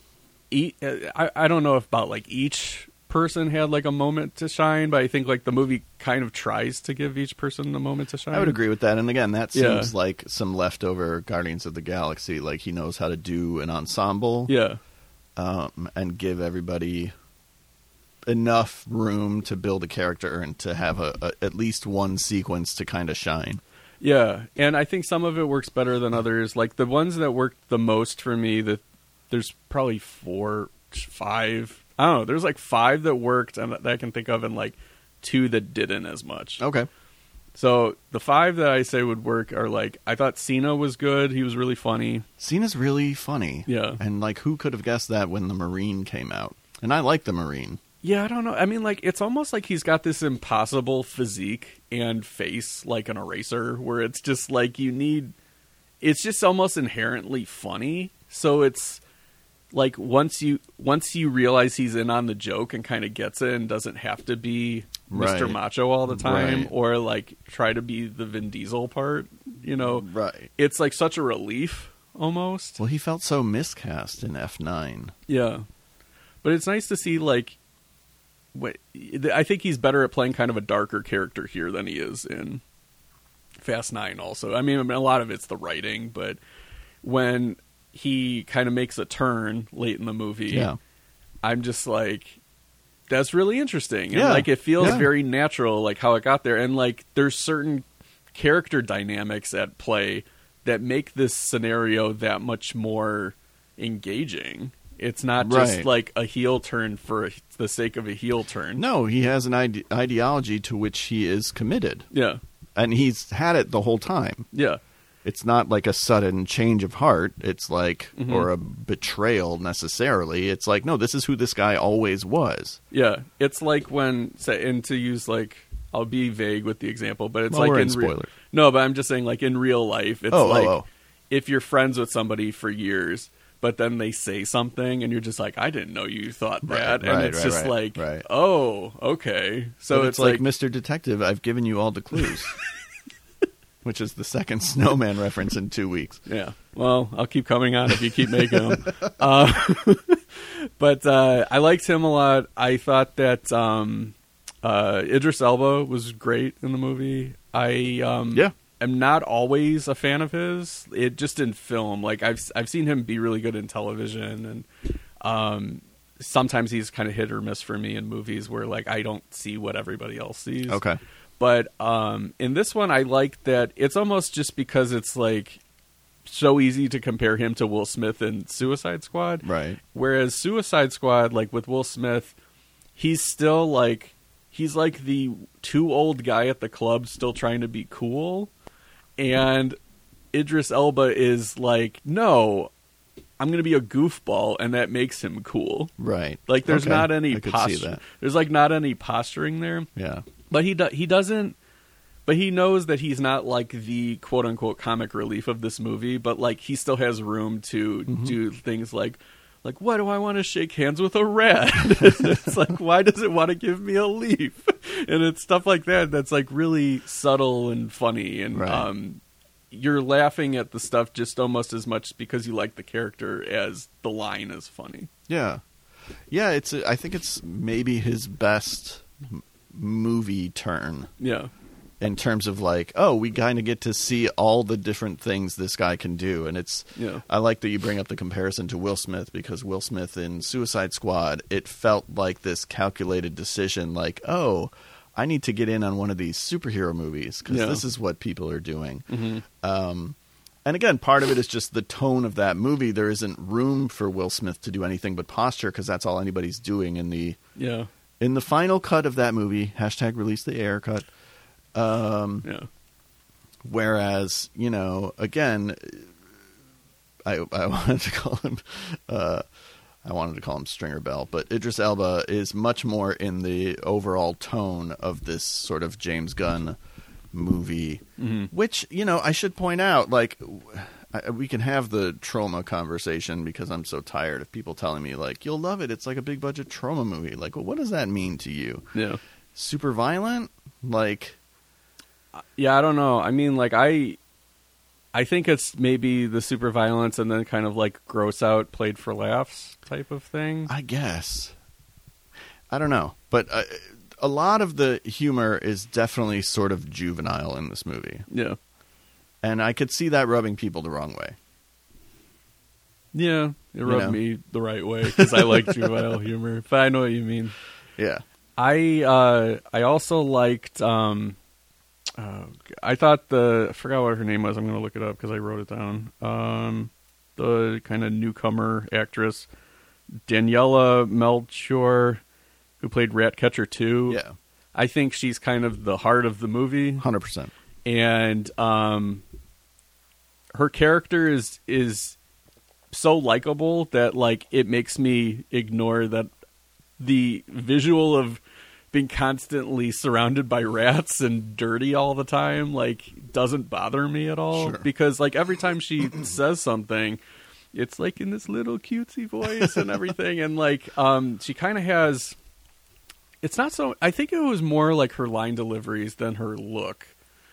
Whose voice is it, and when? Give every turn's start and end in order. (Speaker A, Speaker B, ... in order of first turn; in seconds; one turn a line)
Speaker A: 0.5-8.6
Speaker B: 8.3-14.5
Speaker A: 9.5-9.9
Speaker A: 14.5-14.8
Speaker B: 15.4-17.1
Speaker B: 18.3-23.6
Speaker A: 24.0-36.6
Speaker B: 36.6-36.9
Speaker A: 37.5-42.2
Speaker B: 42.4-47.8
Speaker A: 43.7-44.0
Speaker A: 48.0-55.3
Speaker A: 56.0-59.0
Speaker A: 59.7-72.8
Speaker B: 65.1-66.7
Speaker B: 69.8-70.5
Speaker B: 72.8-75.1
Speaker A: 75.3-75.7
Speaker A: 76.4-77.6
Speaker A: 78.5-82.6
Speaker A: 83.6-86.4
Speaker A: 87.0-90.7
Speaker B: 90.5-90.8
Speaker A: 91.4-92.4
Speaker A: 93.1-108.8
Speaker B: 94.1-95.1
Speaker B: 105.4-105.9
Speaker B: 108.8-112.1
Speaker A: 112.1-112.4
Speaker B: 112.8-114.5
Speaker A: 114.5-114.8
Speaker B: 115.2-122.8
Speaker A: 118.2-118.5
Speaker A: 122.9-130.8
Speaker B: 127.5-128.3
Speaker B: 130.3-130.9
Speaker A: 131.3-140.4
Speaker B: 136.7-138.2
Speaker B: 139.9-142.6
Speaker B: 143.8-146.2
Speaker A: 146.3-164.7
Speaker B: 148.5-149.1
Speaker A: 165.2-170.8
Speaker B: 170.7-171.0
Speaker A: 171.4-175.6
Speaker A: 176.3-182.3
Speaker B: 179.4-179.8
Speaker A: 183.0-188.5
Speaker A: 189.2-189.8
Speaker A: 190.3-192.7
Speaker A: 193.4-195.9
Speaker B: 196.0-198.0
Speaker A: 196.5-199.9
Speaker B: 200.0-200.3
Speaker A: 200.5-201.6
Speaker A: 202.3-225.1
Speaker B: 208.1-208.4
Speaker B: 212.0-212.3
Speaker B: 218.5-218.9
Speaker B: 225.3-225.6
Speaker B: 226.3-231.1
Speaker A: 231.2-231.5
Speaker B: 232.0-257.4
Speaker A: 236.9-237.2
Speaker A: 247.5-247.8
Speaker A: 249.1-249.4
Speaker A: 257.6-257.9
Speaker B: 258.2-261.1
Speaker B: 261.7-262.5
Speaker B: 263.6-266.1
Speaker B: 267.2-269.4
Speaker B: 270.0-276.8
Speaker B: 277.3-288.9
Speaker A: 278.2-278.5
Speaker A: 288.9-289.2
Speaker B: 289.6-291.4
Speaker A: 292.4-294.2
Speaker A: 295.1-300.7
Speaker B: 300.7-301.5
Speaker B: 302.7-308.3
Speaker A: 308.3-308.6
Speaker B: 309.4-311.4
Speaker A: 313.1-317.6
Speaker B: 313.9-314.2
Speaker B: 315.2-316.0
Speaker B: 318.0-318.2
Speaker A: 318.6-321.4
Speaker A: 322.2-329.5
Speaker A: 330.3-332.2
Speaker A: 332.8-334.2
Speaker B: 334.1-334.4
Speaker A: 334.8-337.1
Speaker B: 337.0-337.5
Speaker A: 337.9-339.2
Speaker A: 340.5-342.2
Speaker A: 342.9-346.3
Speaker A: 347.0-348.4
Speaker A: 348.9-357.2
Speaker B: 354.5-354.9
Speaker A: 357.7-362.4
Speaker A: 363.4-367.1